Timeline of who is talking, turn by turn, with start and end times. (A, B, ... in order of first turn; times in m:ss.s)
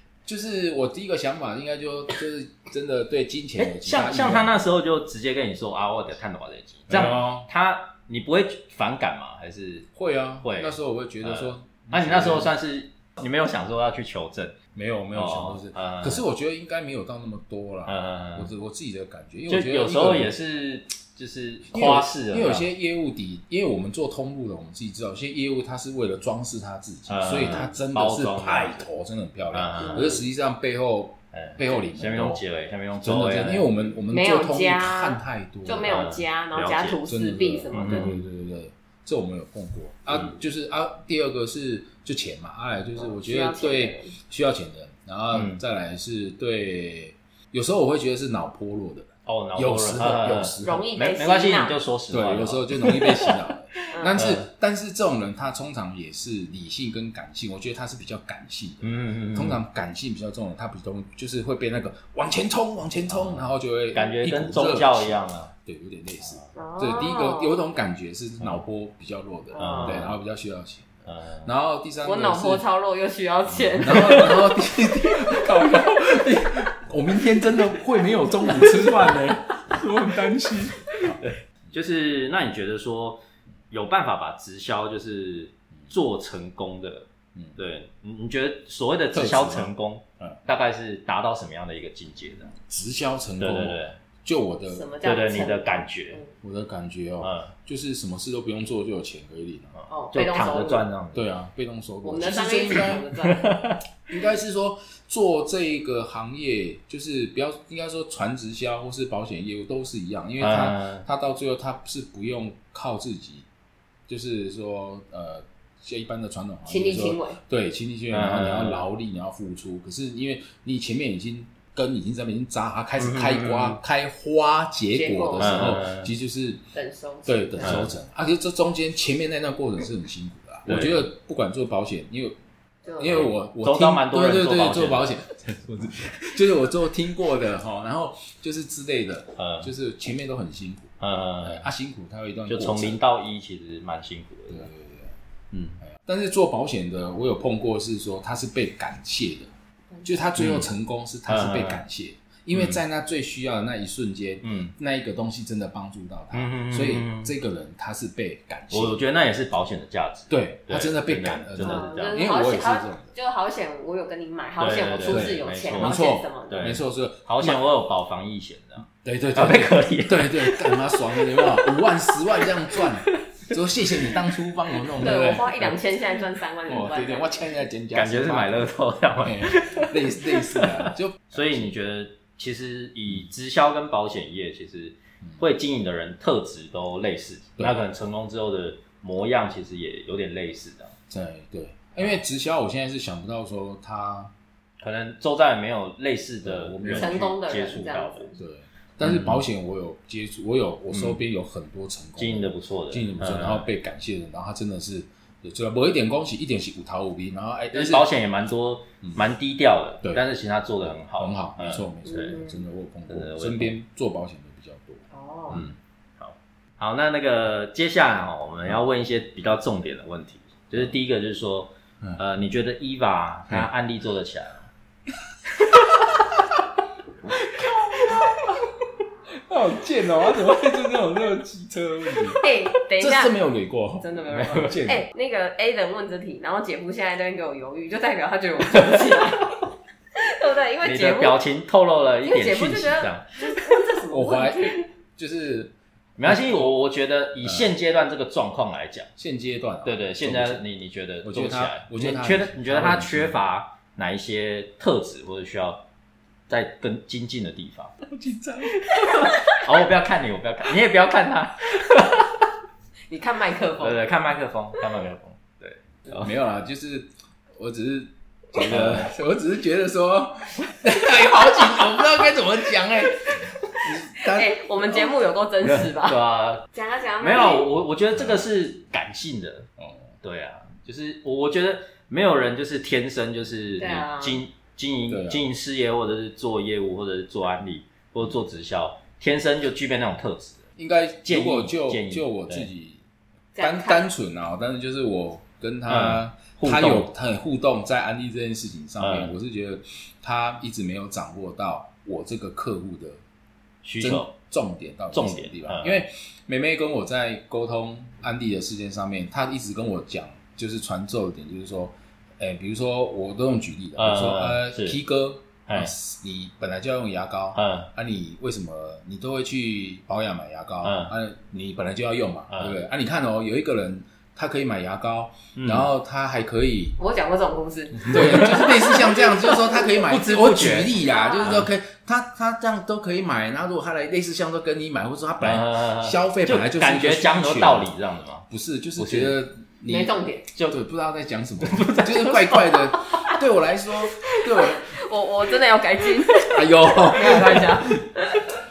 0:00.2-0:04.6 A
0:03.6-0:09.9 B
0:06.9-0:07.5 A
0:09.9-0:12.5 A
0:10.4-0:14.6 B
0:14.7-0:20.4 A
0:15.1-0:16.2 B
0:17.9-0:18.5 B
0:19.5-0:22.7 B
0:21.7-0:32.4 A
0:27.1-0:28.9 B
0:29.5-0:30.2 B
0:29.8-0:30.2 C
0:31.3-0:33.9 B
0:33.0-0:36.1 A
0:34.1-0:38.1 C
0:35.8-0:37.0 B
0:37.1-0:51.0 A
0:37.7-0:38.2 B
0:43.0-0:44.1 C
0:45.3-0:45.6 B
0:49.3-0:54.5 B
0:50.6-0:51.8 C
0:52.1-1:12.6 A
0:53.9-0:54.2 C
0:58.8-0:59.6 B
1:03.1-1:05.5 B
1:06.2-1:06.5 B
1:06.6-1:07.6 C
1:09.5-1:10.1 C
1:09.6-1:10.2 B
1:11.1-1:11.5 B
1:12.0-1:14.4 C
1:13.5-1:21.2 A
1:13.9-1:14.4 B
1:21.0-1:32.5 B
1:29.1-1:30.4 A
1:32.6-1:34.9 A
1:33.4-1:34.0 B
1:34.7-1:36.3 C
1:35.0-1:36.2 B
1:36.4-1:39.8 A
1:37.2-1:37.5 B
1:39.8-1:41.3 B
1:39.9-1:40.8 C
1:41.1-1:43.1 A
1:42.0-1:43.6 C
1:43.2-1:43.8 B
1:44.1-1:53.5 A
1:50.4-1:51.0 B
1:54.1-2:06.6 A
1:56.7-1:57.4 C
1:58.1-1:58.8 B
2:03.0-2:03.8 B
2:04.9-2:05.8 C
2:05.4-2:06.1 B
2:06.8-2:07.6 C
2:07.3-2:12.4 A
2:07.6-2:07.9 B
2:10.7-2:11.1 B
2:12.9-2:13.2 C
2:13.0-2:23.0 A
2:13.1-2:15.2 B
2:19.4-2:19.7 B
2:21.0-2:21.6 B
2:22.5-2:24.7 B
2:24.5-2:25.1 A
2:25.5-2:25.8 B
2:25.8-2:29.5 A
2:30.0-2:39.0 A
2:30.4-2:30.7 B
2:31.3-2:31.8 B
2:32.5-2:32.8 B
2:34.4-2:34.7 B
2:36.3-2:37.3 B
2:38.7-2:42.3 B
2:40.3-2:43.1 A
2:41.6-2:46.7 C
2:44.6-2:46.0 B
2:45.1-2:47.6 A
2:46.5-2:53.5 B
2:49.0-2:55.8 A
2:55.0-2:57.4 C
2:56.7-3:01.7 A
2:57.9-3:10.9 B
3:11.1-3:14.3 A
3:14.8-3:18.3 B
3:16.4-3:17.4 A
3:16.9-3:18.4 C
3:18.4-3:28.1 A
3:19.0-3:19.4 B
3:20.9-3:21.2 B
3:22.2-3:23.7 B
3:27.7-3:32.4 B
3:31.2-3:35.8 A
3:32.1-3:32.6 C
3:33.1-3:33.7 B
3:35.1-3:35.6 C
3:35.5-3:44.7 B
3:45.7-3:46.4 A
3:47.3-3:48.7 A
3:49.3-3:55.1 A
3:52.4-3:53.3 C
3:54.0-4:01.4 C
4:00.8-4:03.3 B
4:02.2-4:04.8 C
4:04.1-4:05.7 A
4:06.2-4:09.1 B
4:06.3-4:06.6 A
4:07.4-4:07.7 A
4:09.2-4:10.6 A
4:09.8-4:15.8 B
4:11.2-4:13.4 A
4:16.5-4:17.9 B
4:18.1-4:19.3 A
4:18.9-4:22.4 B
4:23.1-4:24.0 C
4:23.8-4:26.3 B
4:26.1-4:35.1 A
4:28.6-4:29.1 B
4:34.2-4:36.2 C
4:35.6-4:36.6 B
4:36.7-4:37.7 C
4:37.2-4:39.7 B
4:38.2-4:38.4 A
4:39.8-4:40.1 A
4:40.2-4:50.7 B
4:43.8-4:44.4 C
4:45.1-4:45.5 A
4:50.8-4:53.0 A
4:51.3-4:52.7 B
4:53.6-4:54.1 C
4:53.6-5:03.2 A
4:55.9-4:57.1 B
4:59.0-4:59.3 B
5:03.8-5:04.3 B
5:04.0-5:27.0 A
5:05.1-5:06.0 B
5:14.0-5:15.0 B
5:17.6-5:17.9 B
5:20.8-5:21.1 B
5:22.5-5:22.8 B
5:25.6-5:25.9 B
5:27.0-5:29.5 C
5:28.0-5:37.9 A
5:28.1-5:29.1 B
5:29.8-5:31.7 B
5:31.0-5:31.6 C
5:35.4-5:39.4 B
5:38.5-5:44.9 A
5:39.9-5:40.5 C
5:40.6-5:40.8 B
5:41.6-5:43.4 B
5:44.6-5:48.5 C
5:46.5-5:48.0 A